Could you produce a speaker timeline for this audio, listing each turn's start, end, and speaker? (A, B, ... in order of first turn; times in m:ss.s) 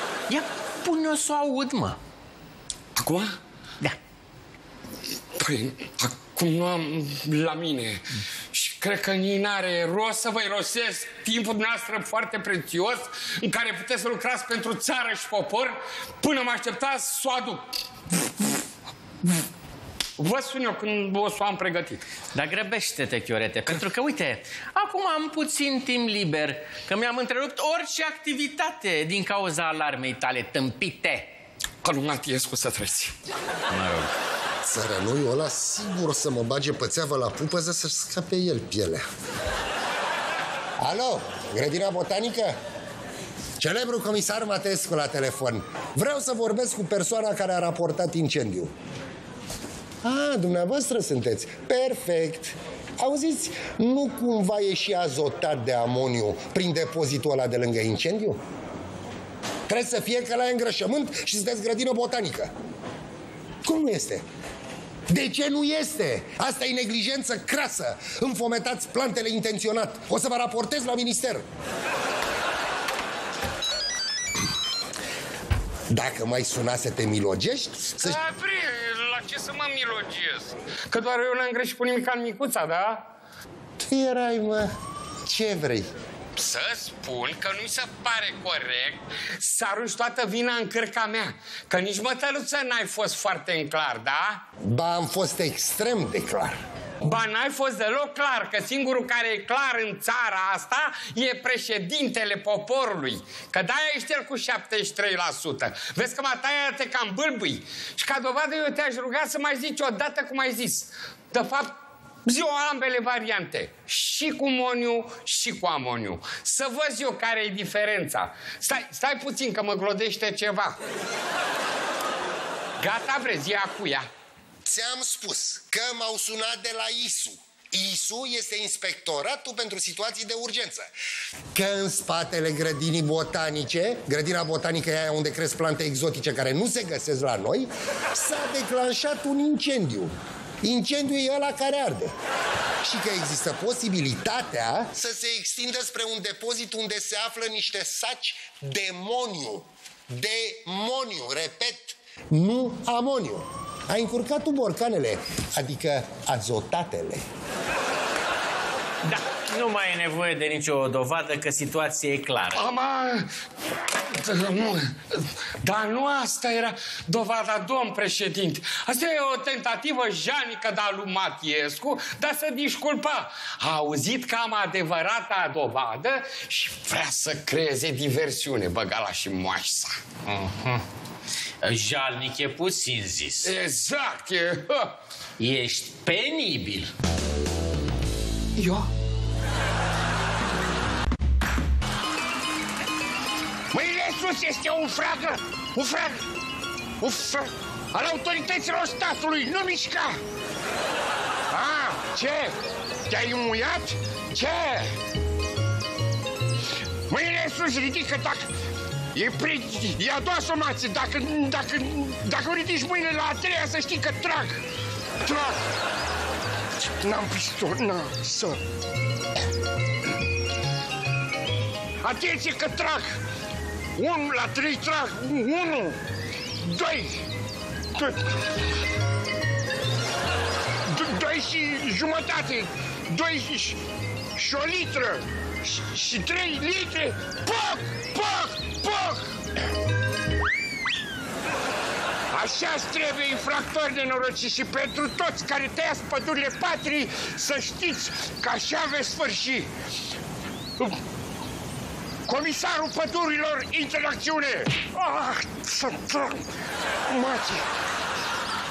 0:00.3-0:02.0 A
0:03.0-0:03.4 B
0:05.4-0:17.6 B
0:20.2-0:22.0 B
0:22.3-0:31.3 A
0:31.8-0:33.1 B
0:33.7-0:34.1 A
0:34.6-0:39.0 C
0:40.8-0:42.6 C
0:43.6-0:48.7 C
0:50.0-0:58.4 C
0:59.7-1:02.5 C
1:03.6-1:04.2 C
1:05.1-1:11.4 C
1:15.9-1:18.2 C
1:18.0-1:23.0 B
1:23.8-1:24.7 C
1:25.2-1:25.9 C
1:26.4-1:34.4 B
1:34.6-1:36.6 C
1:37.0-2:00.8 B
2:02.8-2:04.1 B
2:04.6-2:10.9 C
2:11.5-2:22.1 C
2:22.8-2:37.2 C
2:39.0-2:42.7 A
2:42.5-2:43.3 B
2:44.1-3:00.0 B
3:00.3-3:00.8 A
3:01.6-3:03.5 A
3:03.4-3:05.0 B
3:05.4-3:06.9 A
3:08.6-3:08.9 B
3:13.7-3:16.3 D
3:17.0-3:20.2 D
3:21.5-3:22.5 D
3:23.1-3:24.9 D
3:27.1-3:28.5 D
3:29.2-3:34.6 D
3:35.2-3:35.6 D
3:37.0-3:38.6 D
3:42.0-3:43.2 D
3:44.0-3:46.0 D
3:46.6-3:47.3 D
3:48.0-3:48.2 D
3:50.9-3:53.8 D
3:54.4-3:59.3 D
4:02.3-4:09.7 D
4:12.3-4:16.4 D
4:17.1-4:17.6 D